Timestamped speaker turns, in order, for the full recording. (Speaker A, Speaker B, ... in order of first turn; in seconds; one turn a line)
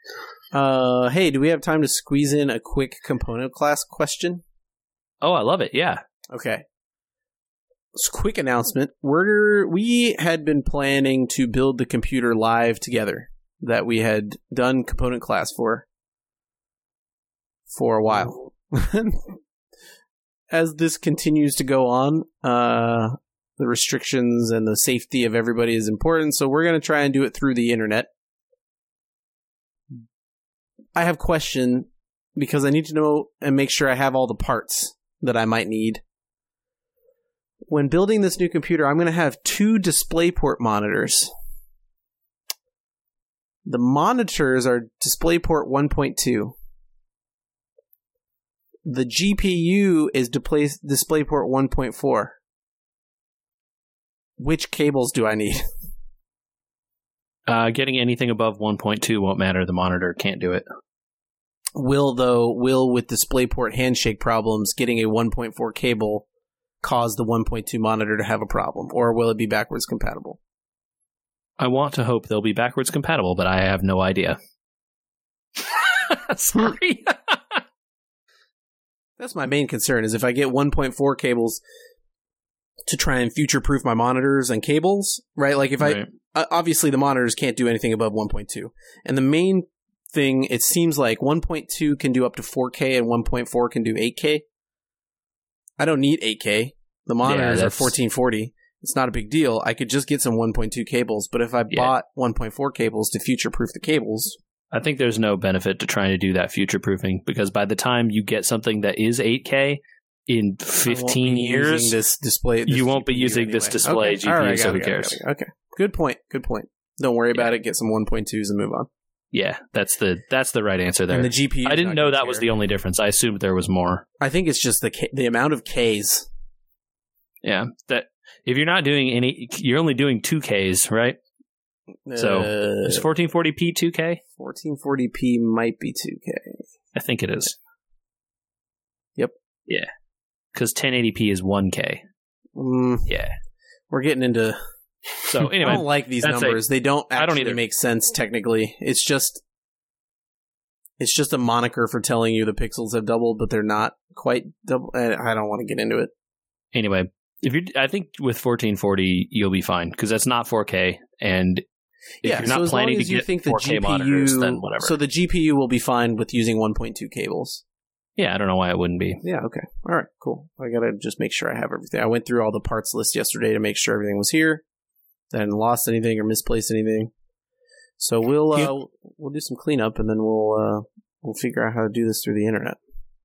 Speaker A: 0.5-4.4
Speaker B: 5.2-6.0
Speaker A: 6.3-6.6
Speaker A: 7.9-15.8
Speaker A: 17.7-19.4
Speaker A: 20.5-28.1
Speaker A: 30.9-36.0
Speaker A: 37.7-41.3
Speaker A: 43.6-46.5
Speaker A: 48.9-52.4
Speaker A: 54.4-55.6
Speaker B: 57.5-60.6
Speaker A: 61.7-66.2
Speaker A: 66.8-70.4
Speaker B: 71.6-74.4
Speaker B: 75.6-77.6
Speaker A: 79.2-81.6
Speaker A: 82.8-94.4
Speaker B: 85.8-86.1
Speaker A: 95.8-104.4
Speaker B: 97.2-97.9
Speaker B: 104.7-112.0
Speaker A: 110.8-118.9
Speaker B: 112.7-115.2
Speaker B: 119.3-124.0
Speaker A: 121.1-122.5
Speaker A: 124.2-126.3
Speaker B: 127.4-131.2
Speaker A: 132.1-133.1
Speaker B: 132.2-134.2
Speaker A: 134.4-136.7
Speaker B: 136.9-137.6
Speaker B: 140.5-142.0
Speaker A: 142.5-143.1
Speaker B: 143.1-143.3
Speaker A: 143.9-144.6
Speaker B: 145.2-146.6
Speaker A: 145.6-149.4
Speaker B: 147.1-147.6
Speaker A: 151.0-156.1
Speaker B: 156.7-161.6
Speaker B: 162.2-164.9
Speaker A: 162.2-167.6
Speaker B: 168.2-169.2
Speaker A: 169.2-174.6
Speaker A: 175.3-177.1
Speaker A: 178.0-182.8